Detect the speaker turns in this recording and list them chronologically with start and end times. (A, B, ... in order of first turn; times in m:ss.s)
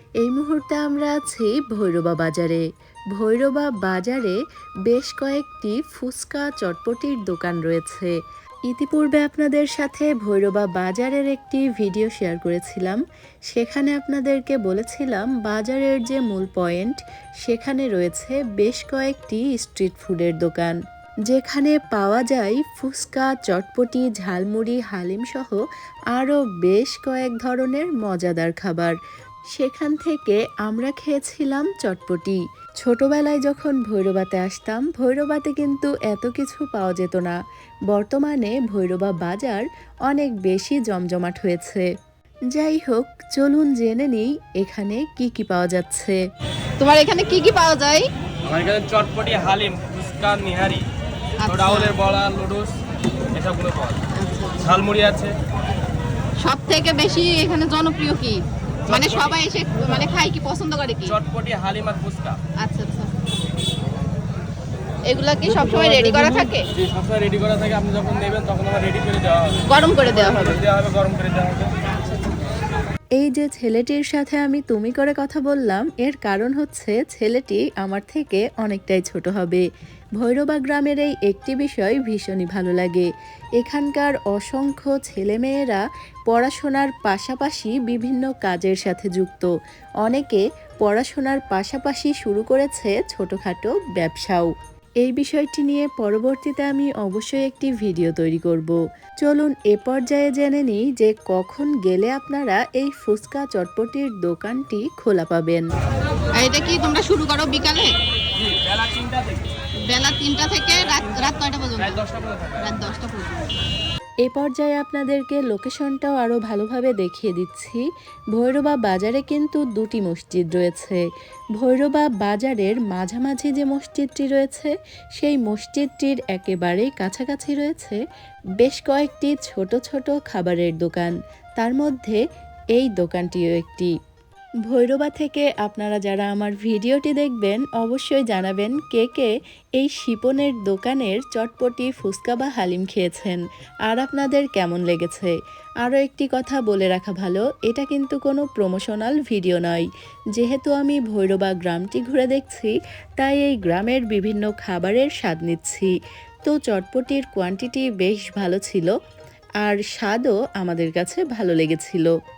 0:00.2-0:02.6 A
0:03.2-0:08.1 A
0:08.7-0:20.8 A
0:21.3-0:25.6 A
0:26.1-0:29.0 A
0:29.6-0:37.4 A
0:37.9-0:41.9 A
0:42.5-0:46.2 A
0:46.8-0:48.1 B
0:48.4-0:50.9 C
0:51.4-0:52.0 B
0:51.4-0:52.8 C
0:53.3-0:54.0 C
0:54.2-0:54.8 B
0:54.6-0:55.4 C
0:56.4-1:01.2 B
0:58.9-1:00.1 C
1:01.0-1:02.4 C
1:02.6-1:03.1 B
1:05.1-1:06.6 B
1:05.5-1:11.7 C
1:09.6-1:10.6 B
1:13.2-1:19.6 A
1:20.2-1:29.5 A
1:30.0-1:34.5 A
1:35.0-1:45.6 A
1:46.4-1:47.9 B
1:48.4-1:49.5 C
1:49.9-1:52.0 B
1:51.8-1:52.7 C
1:52.6-1:53.5 B
1:54.2-1:57.8 A
1:58.3-2:01.0 A
2:01.6-2:08.0 A
2:08.6-2:12.2 A
2:12.8-2:13.9 A
2:14.7-2:29.8 A
2:30.4-2:35.9 A
2:36.4-2:38.9 A
2:39.6-2:42.1 A